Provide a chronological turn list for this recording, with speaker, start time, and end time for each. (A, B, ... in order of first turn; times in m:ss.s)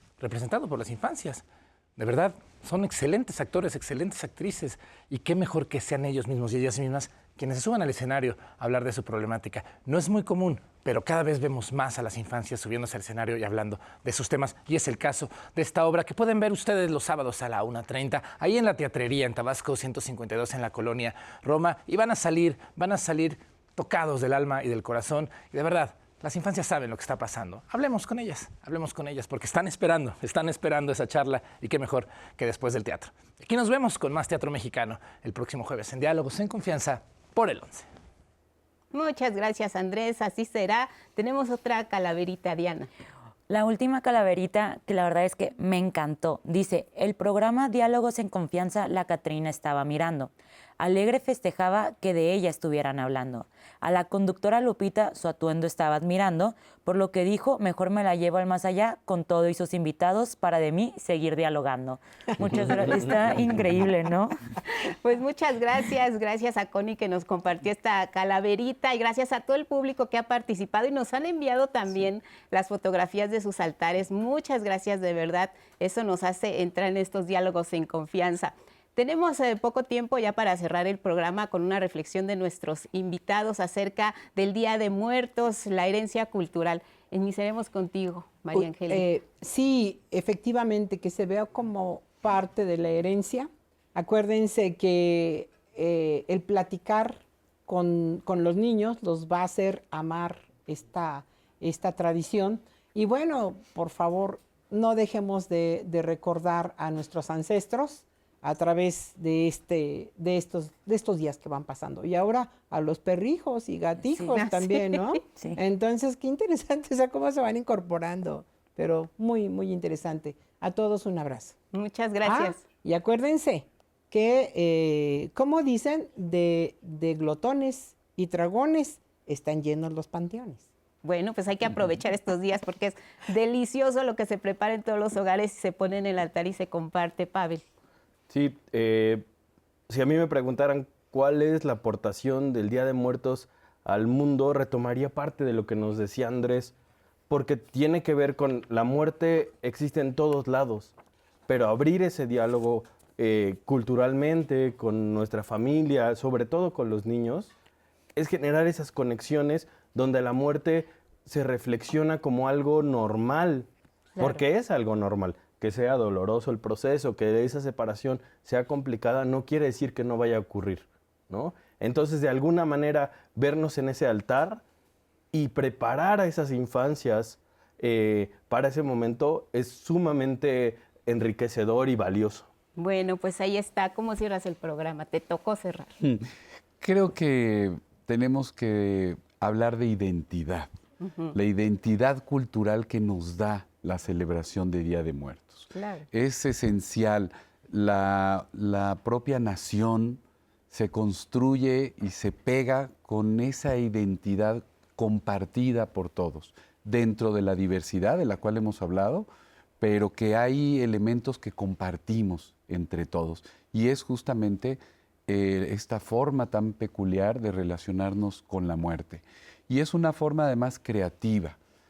0:00.2-0:01.4 A
0:02.0-0:37.9 A
0:38.9-0:42.9 B
0:43.5-1:04.3 C
1:02.5-1:03.1 D
1:05.0-1:29.0 B
1:28.5-2:01.6 E
1:54.1-1:54.4 C
1:54.4-1:55.0 B
2:01.7-2:02.6 B
2:02.2-2:10.6 E
2:11.0-2:17.6 B
2:18.3-2:19.2 D
2:19.9-2:26.7 D
2:27.3-2:30.9 D
2:31.5-2:37.5 D
2:38.1-2:54.6 D
2:44.2-2:44.4 B
2:55.3-3:02.5 D
3:02.8-3:06.0 B
3:06.0-3:06.3 F
3:06.8-3:10.7 F
3:11.0-3:11.3 B
3:11.3-3:29.3 F
3:15.7-3:16.1 B
3:29.8-3:41.6 F